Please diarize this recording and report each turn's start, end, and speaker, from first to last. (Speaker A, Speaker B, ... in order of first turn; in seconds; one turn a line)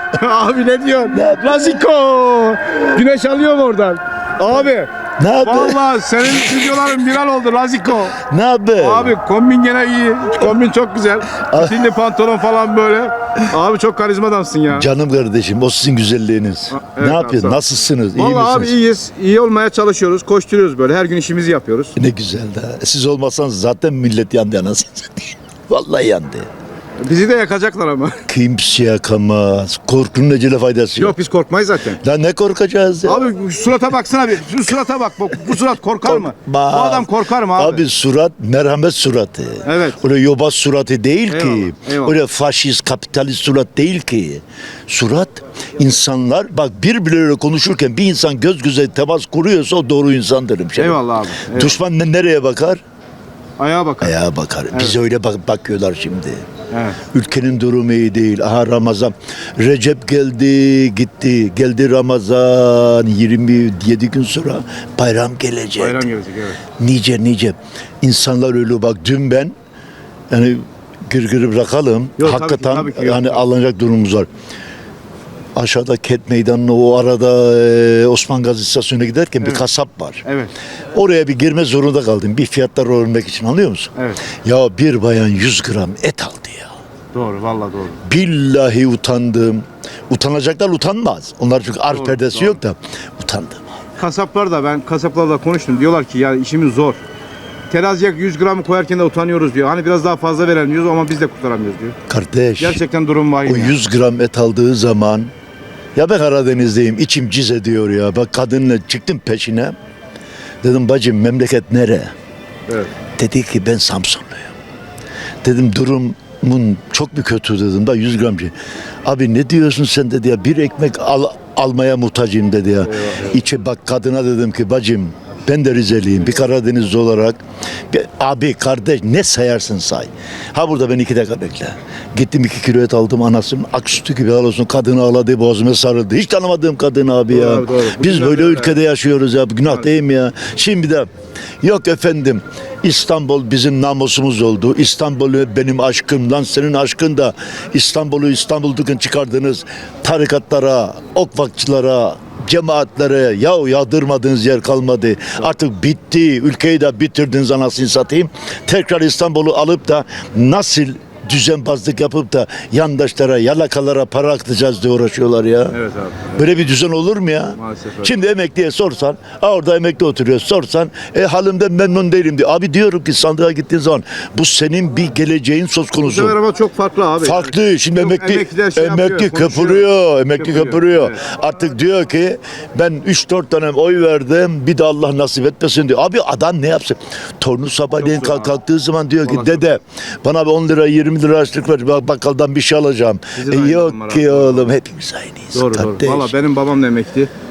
Speaker A: 0.1-4.9
Speaker B: 1.1-1.7
Speaker B: 5.2-5.8
Speaker A: 5.4-8.2
Speaker B: 8.2-9.1
Speaker A: 8.8-14.9
Speaker B: 11.4-11.8
Speaker B: 14.7-18.7
Speaker A: 16.7-17.6
Speaker A: 18.1-21.9
Speaker B: 21.9-26.4
Speaker A: 27.0-28.2
Speaker B: 28.3-31.1
Speaker A: 31.0-32.0
Speaker B: 32.0-33.2
Speaker A: 33.0-37.8
Speaker B: 36.0-51.0
Speaker A: 39.6-40.0
Speaker A: 41.3-42.2
Speaker A: 50.8-51.8
Speaker B: 51.5-52.8
Speaker A: 53.6-54.1
Speaker B: 54.0-56.4
Speaker A: 56.7-57.0
Speaker B: 57.1-66.0
Speaker A: 65.8-66.6
Speaker B: 66.8-69.5
Speaker B: 70.3-74.3
Speaker A: 72.2-73.4
Speaker B: 75.5-80.2
Speaker A: 80.2-80.5
Speaker B: 80.9-86.7
Speaker A: 84.0-84.2
Speaker A: 87.1-88.0
Speaker B: 88.0-93.6
Speaker A: 91.9-92.6
Speaker A: 94.0-97.0
Speaker A: 97.7-102.0
Speaker B: 102.1-102.8
Speaker A: 102.6-103.8
Speaker B: 103.5-105.3
Speaker B: 106.0-109.7
Speaker B: 110.6-112.1
Speaker B: 113.2-114.5
Speaker B: 115.4-118.5
Speaker B: 119.0-127.4
Speaker A: 122.8-123.4
Speaker B: 127.9-141.1
Speaker A: 137.3-138.8
Speaker B: 141.6-165.8
Speaker A: 165.7-166.4
Speaker B: 166.3-176.3
Speaker A: 167.6-168.1
Speaker A: 176.0-181.2
Speaker B: 177.2-196.3
Speaker A: 188.0-188.5
Speaker A: 189.2-189.7
Speaker A: 193.3-194.7
Speaker A: 195.5-197.3